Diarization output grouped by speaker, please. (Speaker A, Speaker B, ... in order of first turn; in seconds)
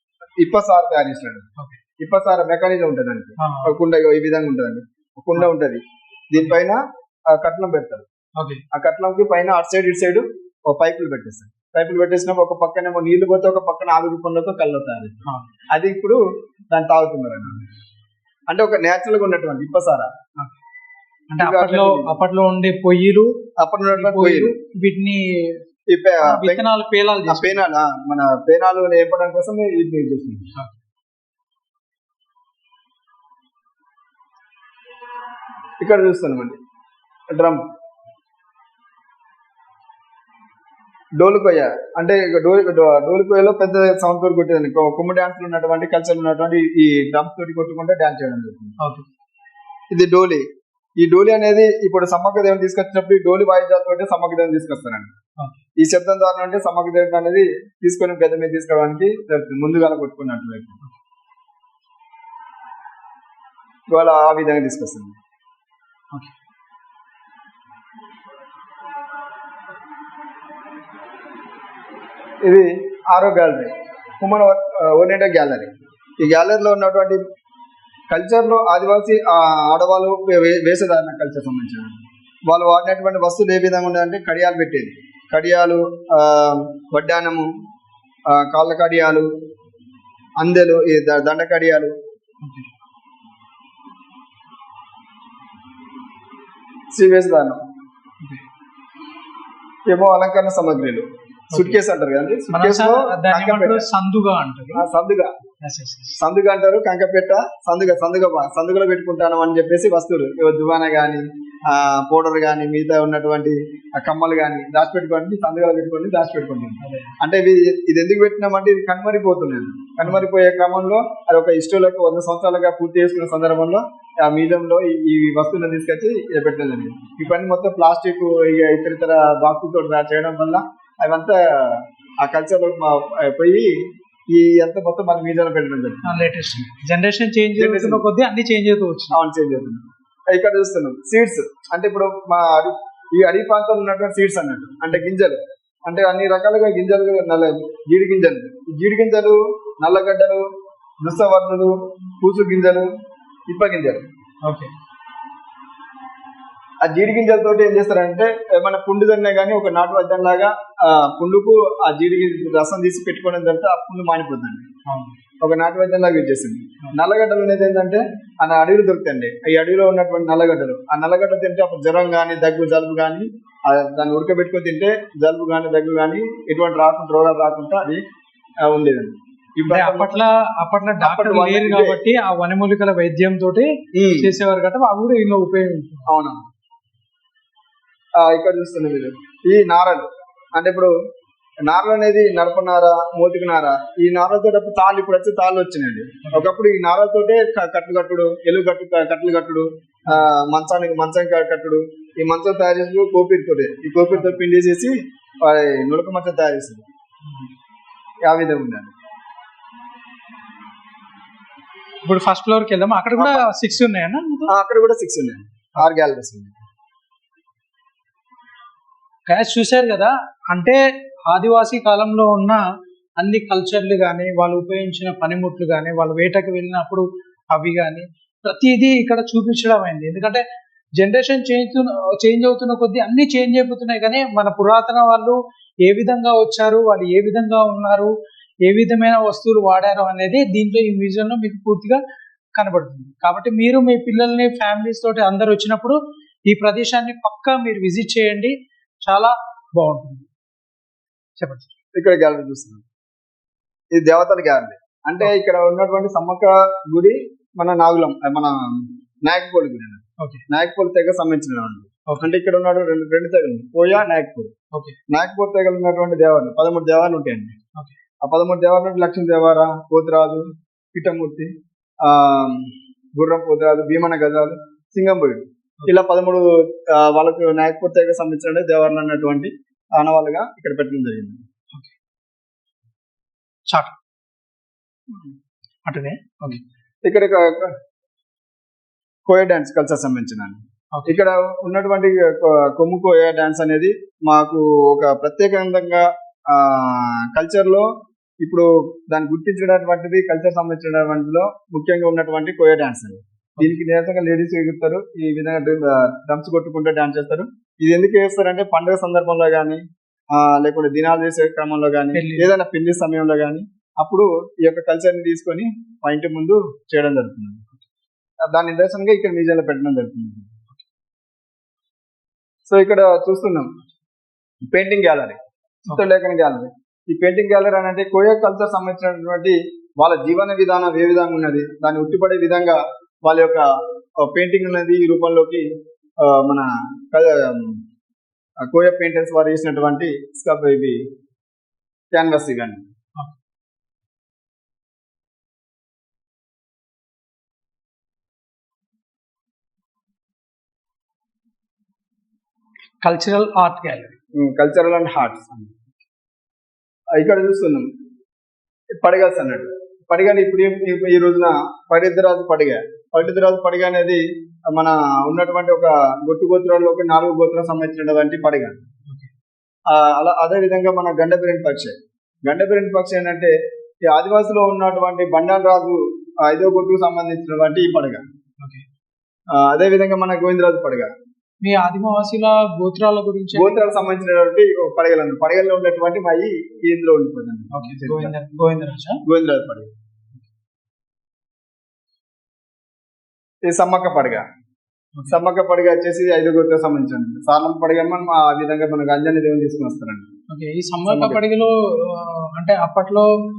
Speaker A: 0.4-8.1, 8.7-15.2, 15.7-17.7, 18.5-20.1, 21.4-22.1, 23.6-24.5, 25.9-26.6, 27.3-30.5, 35.8-36.6, 37.3-37.6, 41.2-48.8, 49.9-50.5, 51.0-55.1, 55.8-60.8, 63.9-65.2, 72.4-77.2, 78.1-87.5, 88.3-89.3, 90.4-91.9, 96.9-97.6, 99.9-103.9, 104.7-105.3, 106.2-136.2, 137.6-138.1, 139.1-150.4, 151.0-152.9, 153.5-154.1, 156.8-164.7, 165.4-178.0, 178.6-180.2, 181.0-182.0, 183.9-184.3, 186.1-186.4, 188.2-190.9, 191.6-206.8, 208.2-208.9, 213.2-213.5, 214.5-216.6, 251.9-252.8, 253.9-264.5, 265.1-267.6, 268.2-281.4, 287.0-287.8, 289.3-297.9, 298.4-309.8, 310.3-317.6, 318.5-320.5, 322.7-323.7, 324.7-335.7, 336.2-337.8, 338.6-341.0, 342.1-342.9, 354.4-355.8, 357.2-357.9, 359.0-368.8, 369.9-373.5, 374.1-378.2, 379.5-381.1, 383.5-388.3, 389.3-389.9, 393.6-394.5, 395.3-400.3, 401.1-401.4
Speaker B: 3.4-3.7, 8.4-8.6, 21.3-23.4, 23.9-25.6, 26.2-27.6, 48.8-49.1, 92.4-92.7, 101.5-101.8, 102.5-104.9, 105.6-106.2, 116.8-117.2, 136.0-139.2, 154.4-154.7, 164.9-165.1, 179.7-186.1, 212.0-214.5, 219.3-222.7, 223.2-230.4, 231.0-238.1, 238.7-242.0, 242.6-250.3, 251.4-251.7, 260.2-260.4, 264.7-265.0, 283.7-284.0, 285.9-286.6, 290.9-291.2, 312.1-312.5, 353.0-354.1, 381.6-384.0, 387.7-389.2, 400.5-403.3